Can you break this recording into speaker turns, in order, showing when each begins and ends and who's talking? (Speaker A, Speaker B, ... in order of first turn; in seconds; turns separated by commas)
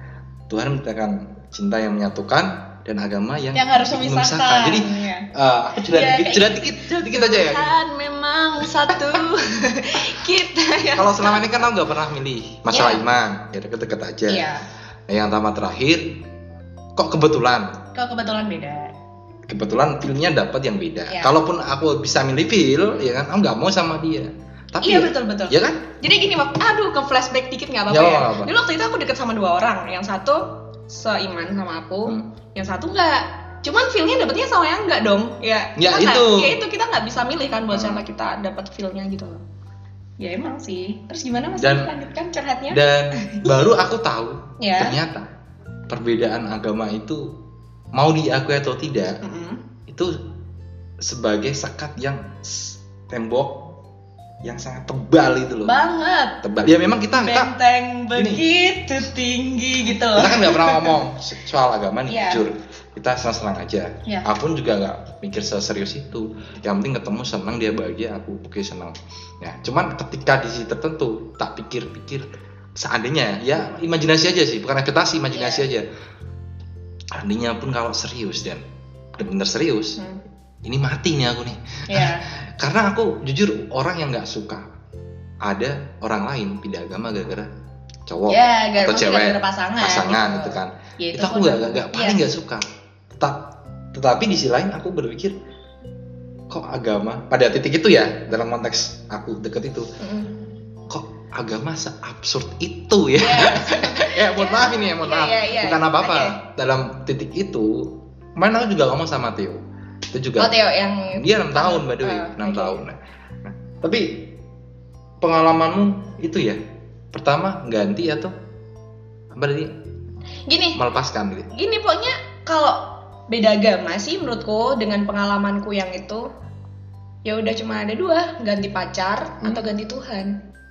Speaker A: 0.5-7.7, Speaker B: 3.5-5.3, Speaker B: 5.9-11.6, Speaker A: 10.9-14.4, Speaker B: 12.7-13.0, Speaker B: 14.3-14.6, Speaker A: 15.1-16.1, Speaker A: 16.9-17.8, Speaker B: 17.9-18.9, Speaker A: 19.5-25.8, Speaker B: 21.1-21.3, Speaker B: 24.8-39.4, Speaker A: 27.9-28.5, Speaker A: 35.8-36.5, Speaker A: 37.7-38.0, Speaker B: 40.2-43.7, Speaker A: 41.6-41.9, Speaker A: 42.7-45.3, Speaker B: 44.6-45.0, Speaker A: 45.9-47.3, Speaker A: 47.9-49.2, Speaker B: 49.2-49.6, Speaker A: 49.9-50.1, Speaker A: 51.0-52.2, Speaker A: 53.1-53.6, Speaker A: 54.4-55.7, Speaker B: 55.6-56.4, Speaker A: 56.4-57.5, Speaker B: 57.1-61.0, Speaker A: 58.1-58.4, Speaker A: 60.1-75.8, Speaker B: 62.1-62.4, Speaker B: 75.3-75.7, Speaker A: 77.1-78.6, Speaker A: 79.2-80.0, Speaker A: 80.6-84.7, Speaker B: 81.9-82.2, Speaker A: 85.4-87.5, Speaker A: 88.1-92.6, Speaker B: 88.3-92.2, Speaker A: 93.9-95.3, Speaker A: 96.5-99.9, Speaker B: 100.0-100.3, Speaker A: 100.9-109.6, Speaker B: 103.2-106.4, Speaker A: 110.1-110.5, Speaker B: 110.4-112.8, Speaker A: 111.2-114.2, Speaker A: 115.2-116.6, Speaker A: 117.1-118.3, Speaker A: 119.3-119.7, Speaker B: 120.5-120.8, Speaker A: 120.7-121.5, Speaker B: 121.5-126.2, Speaker B: 127.2-130.3